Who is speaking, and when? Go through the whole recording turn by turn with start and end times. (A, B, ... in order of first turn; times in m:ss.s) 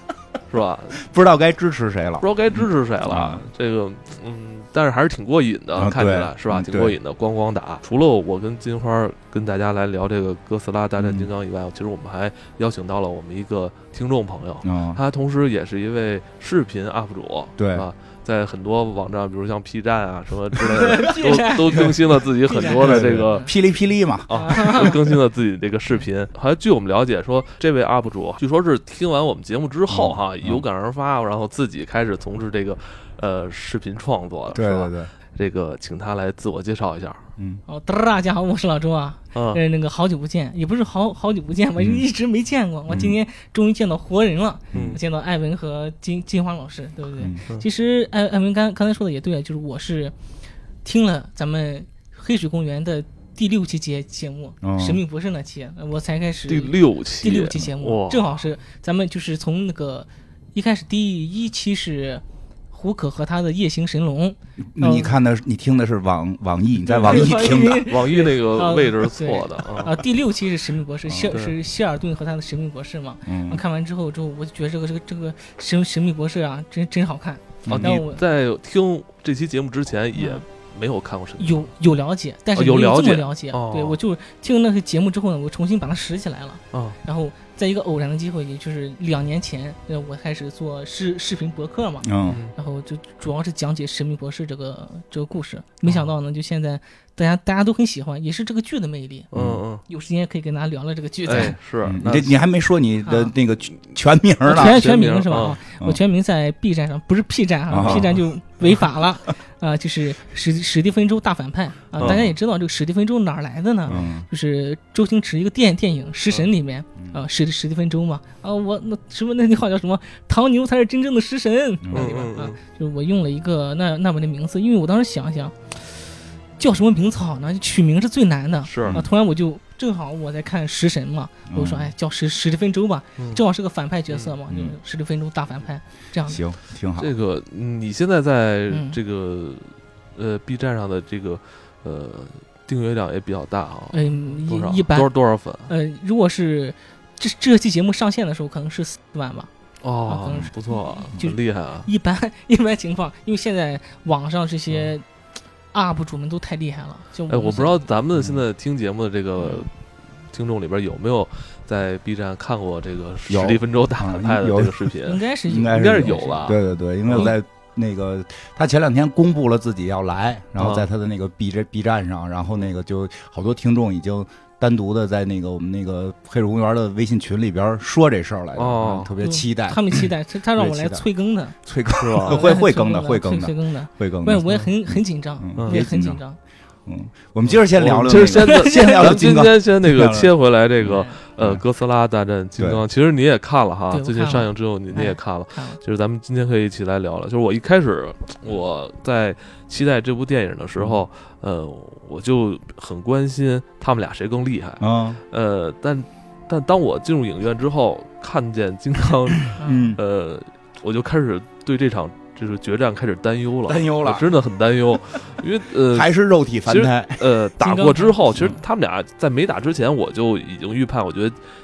0:00.5-0:01.0 A
0:01.0-0:03.4 B
0:02.2-0:23.5 A
0:05.8-0:07.0 B
0:11.0-0:11.3 B
0:14.6-0:15.0 B
0:17.6-0:17.9 B
0:20.7-0:22.0 C
0:22.5-0:23.5 C
0:22.6-0:25.2 B
0:24.3-0:37.2 A
0:24.3-0:24.9 C
0:29.9-0:30.6 B
0:34.5-0:35.1 B
0:37.4-0:37.6 B
0:37.7-0:50.1 C
0:39.3-0:39.6 A
0:41.8-0:42.0 B
0:42.9-0:43.2 B
0:44.7-0:45.0 B
0:44.7-0:45.0 A
0:50.8-1:05.1 C
0:54.6-0:55.0 B
0:56.5-0:58.3 A
1:04.7-1:08.0 B
1:06.8-1:10.0 A
1:07.0-1:18.2 C
1:11.1-1:11.3 B
1:13.2-1:13.6 B
1:17.6-1:18.0 B
1:17.7-1:21.7 A
1:20.2-1:20.4 C
1:21.4-1:39.3 C
1:22.5-1:24.0 A
1:32.0-1:32.4 B
1:32.3-1:32.5 A
1:39.3-1:39.6 B
1:39.3-1:39.8 A
1:39.9-1:41.6 C
1:41.2-1:42.4 A
1:41.8-1:44.9 B
1:43.0-1:43.3 C
1:44.5-2:05.9 C
1:44.5-1:45.6 A
1:47.7-1:48.2 B
1:47.8-1:48.1 A
1:52.0-1:52.3 A
1:52.0-1:52.4 B
1:53.9-1:54.3 B
2:01.8-2:02.1 B
2:01.9-2:02.6 A
2:06.6-2:16.4 C
2:08.7-2:09.0 A
2:11.5-2:11.9 B
2:14.5-2:14.8 B
2:16.3-2:17.1 B
2:17.0-2:25.7 A
2:18.7-2:19.0 C
2:23.9-2:25.1 C
2:25.7-2:29.5 C
2:29.8-2:31.9 A
2:30.1-2:35.0 C
2:35.7-2:37.9 C
2:37.3-2:39.7 A
2:38.2-2:38.4 B
2:40.3-2:47.3 A
2:43.3-2:44.9 B
2:45.0-2:46.5 C
2:45.5-3:01.0 B
2:50.6-2:50.9 A
2:58.6-2:59.1 A
2:59.2-3:01.6 C
3:01.6-3:06.2 B
3:02.0-3:02.4 A
3:02.2-3:06.4 C
3:05.6-3:05.8 A
3:06.9-3:11.6 B
3:07.5-3:36.1 A
3:08.3-3:09.2 C
3:10.8-3:11.1 C
3:13.9-3:15.8 C
3:20.8-3:21.0 B
3:24.8-3:25.2 B
3:29.5-3:30.0 B
3:29.6-3:29.9 C
3:33.7-3:34.3 B
3:35.9-3:37.2 B
3:36.7-3:41.4 A
3:37.6-3:38.4 C